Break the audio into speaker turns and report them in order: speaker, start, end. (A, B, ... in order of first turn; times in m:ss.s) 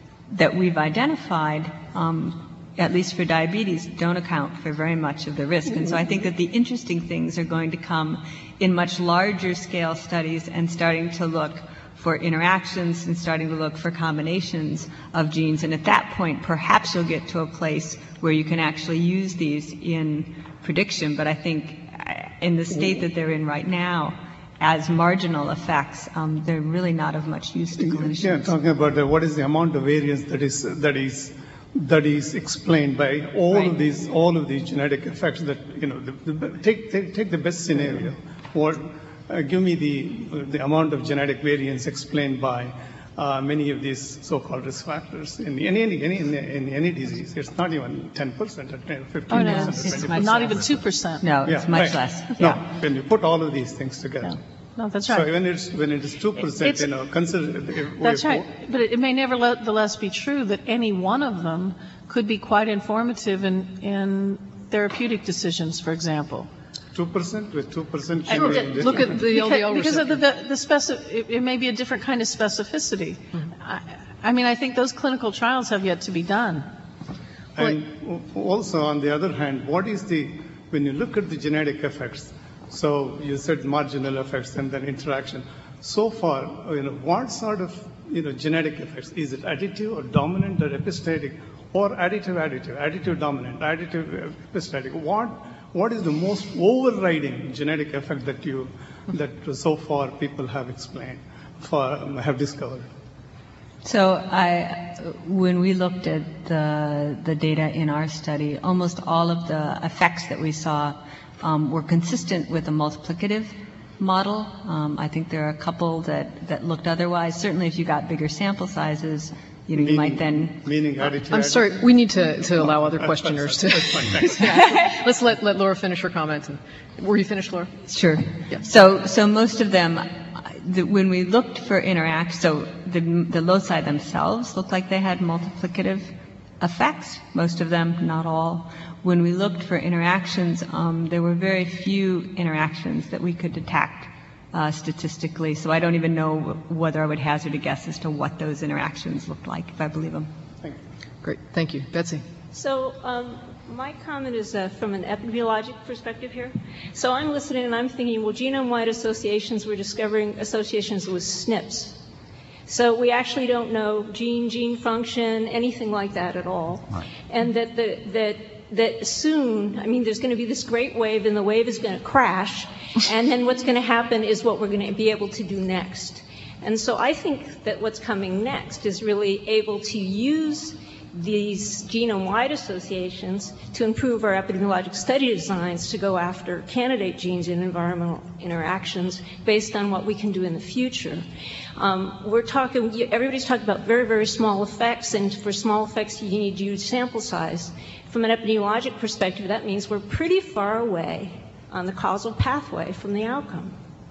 0:00.3-0:28.5 A
0:27.8-0:50.8 B
0:49.3-0:51.3 C
0:49.3-0:50.6 A
0:51.2-0:52.6 A
0:51.4-0:54.4 B
0:54.2-0:55.3 C
0:55.1-0:58.5 B
0:56.4-0:56.9 C
0:58.0-1:06.5 C
1:06.9-1:09.2 B
1:08.3-1:16.7 C
1:08.3-1:10.2 D
1:17.6-1:42.9 B
1:43.8-2:00.7 A
1:59.7-2:04.5 B
2:01.3-2:07.7 D
2:07.9-2:30.3 A
2:31.2-2:32.2 D
2:32.5-2:42.0 E
2:42.7-3:11.2 E
3:11.8-3:23.8 E